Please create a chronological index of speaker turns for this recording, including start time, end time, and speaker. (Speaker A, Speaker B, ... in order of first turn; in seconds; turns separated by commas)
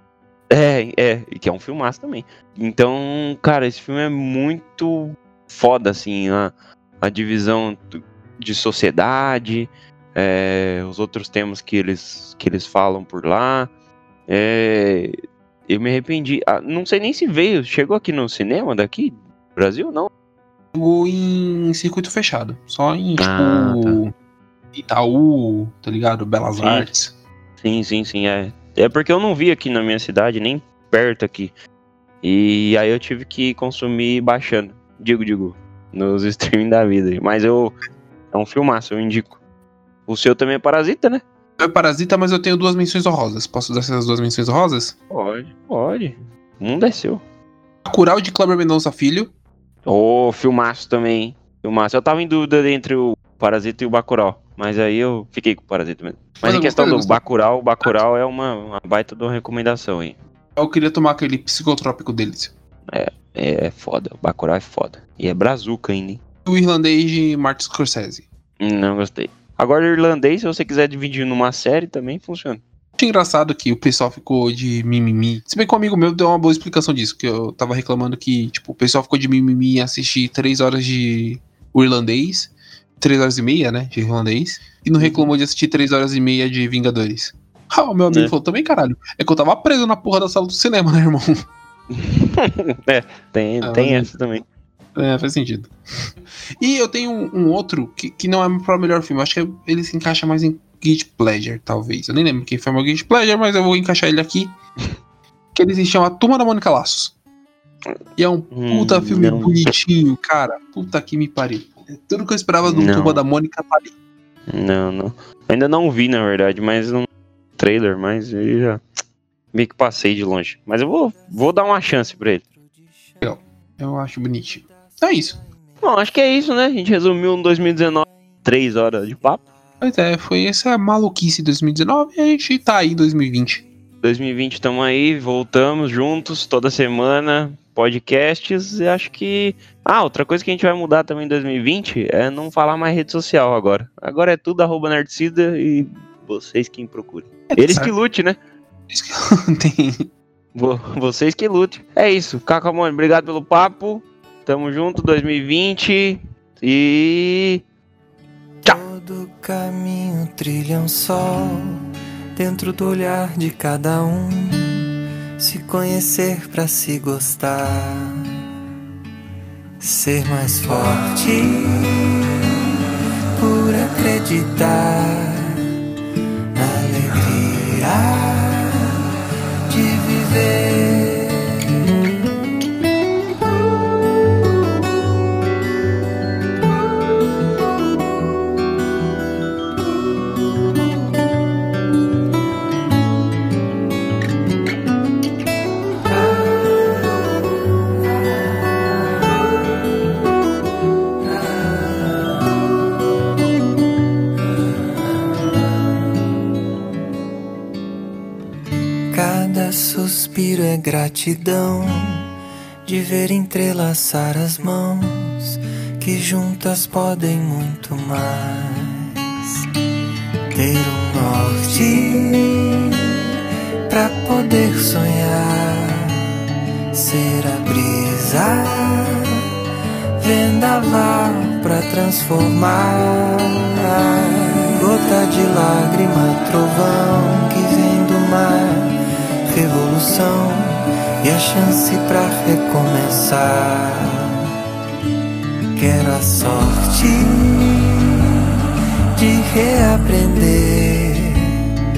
Speaker A: 0.5-13.7, Speaker A: 14.3-15.1, Speaker A: 15.7-20.1, Speaker B: 20.7-24.1, Speaker A: 23.2-24.0, Speaker B: 24.7-27.1, Speaker A: 26.6-26.9, Speaker A: 27.6-31.5, Speaker A: 32.2-37.8, Speaker A: 38.3-39.4, Speaker A: 40.1-41.2, Speaker B: 41.6-44.9, Speaker A: 45.1-47.2, Speaker B: 47.8-49.3, Speaker A: 49.8-60.1, Speaker B: 56.4-57.2, Speaker B: 60.5-62.5, Speaker A: 62.9-66.2, Speaker B: 66.4-68.2, Speaker A: 68.6-72.6, Speaker B: 73.0-91.4, Speaker A: 85.0-85.2, Speaker A: 91.9-94.4, Speaker B: 93.6-94.1, Speaker B: 95.0-95.7, Speaker B: 96.6-104.5, Speaker B: 105.5-107.1, Speaker B: 108.2-113.9, Speaker A: 108.5-109.7, Speaker A: 112.6-113.2, Speaker A: 114.5-117.1, Speaker A: 117.6-118.8, Speaker A: 119.5-122.4, Speaker B: 123.2-125.4, Speaker A: 125.8-129.4, Speaker B: 129.8-133.7, Speaker A: 134.0-148.4, Speaker B: 147.5-147.9, Speaker B: 148.9-150.1, Speaker A: 150.5-157.6, Speaker C: 158.6-161.8, Speaker C: 162.3-164.8, Speaker C: 165.4-168.2, Speaker C: 169.8-172.2, Speaker C: 173.4-175.6, Speaker C: 176.6-179.0, Speaker C: 179.7-181.5, Speaker C: 209.1-212.3, Speaker C: 212.8-219.6, Speaker C: 220.5-222.9, Speaker C: 223.9-226.2, Speaker C: 226.9-229.4, Speaker C: 230.2-238.9, Speaker C: 239.5-244.5, Speaker C: 245.7-248.2, Speaker C: 249.2-251.6